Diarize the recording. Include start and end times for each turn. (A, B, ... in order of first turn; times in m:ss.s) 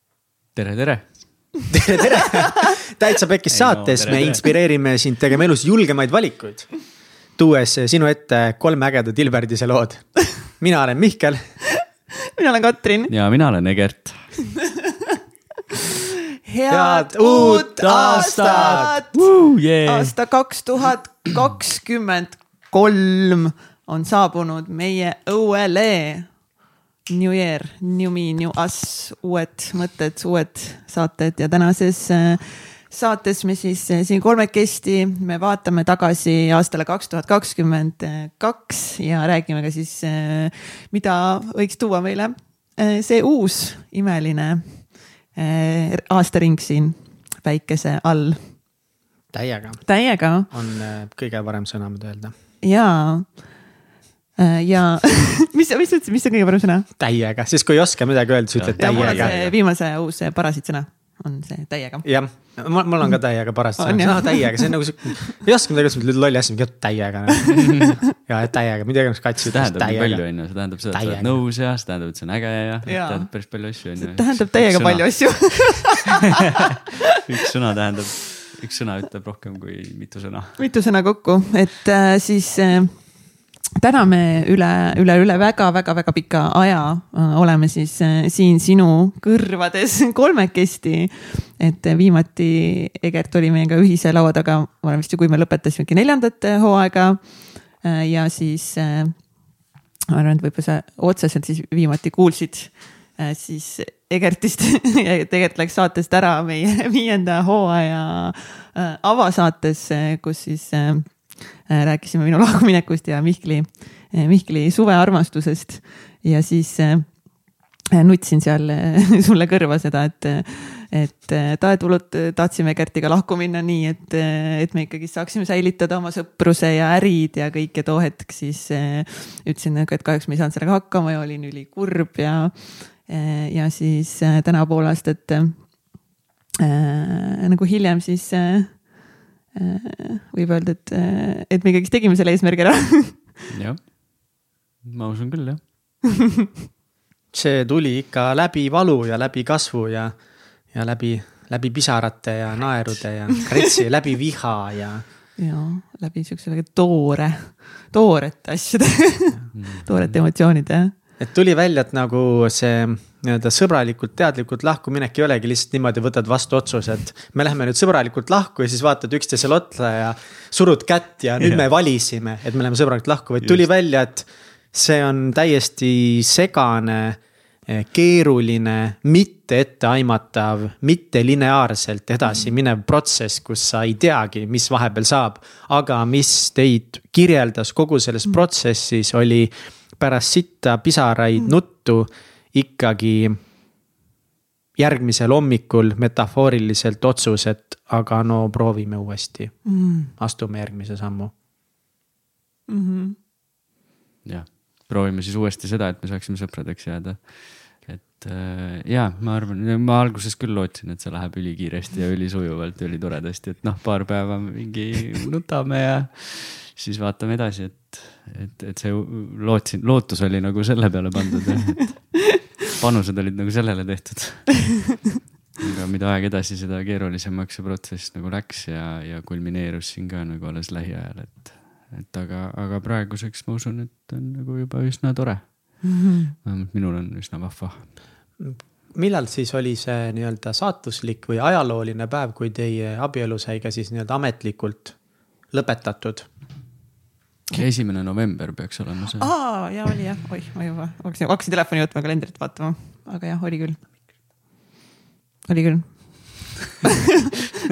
0:00.5-0:01.5 A
0:01.7-0:06.7 B
0:03.5-0:04.5 A
0:07.4-0:11.5 B
0:12.4-0:13.1 C
0:13.1-0:14.3 A
0:16.4-0:19.3 C
0:16.7-0:18.9 B
0:17.4-0:20.1 A
0:19.8-0:26.4 C
0:27.1-0:48.6 C
0:49.3-0:52.3 B
0:49.8-0:50.5 C
0:52.6-0:53.6 C
0:54.4-0:56.9 C
0:57.0-0:59.4 B
0:58.6-0:59.6 A
0:58.8-1:03.2 C
1:02.0-1:11.4 B
1:03.8-1:04.9 C
1:09.4-1:15.8 A
1:12.9-1:16.3 C
1:17.1-1:20.6 A
1:20.6-1:23.0 C
1:23.8-1:39.3 C
1:40.1-1:57.2 C
1:57.9-2:15.8 C
2:16.6-2:23.4 C
2:23.5-2:25.7 A
2:27.3-2:30.2 B
2:30.7-2:35.0 B
2:35.4-2:40.9 C
2:39.5-2:40.2 A
2:41.2-3:13.4 B
3:02.2-3:02.5 C
3:14.8-3:21.3 B
3:19.6-3:20.1 C
3:22.7-3:23.2 C
3:24.2-3:44.9 A
3:45.6-3:57.9 A
3:55.8-3:56.3 C
3:58.4-4:06.3 B
4:07.5-4:09.3 A
4:09.2-4:13.8 C
4:15.5-4:16.9 C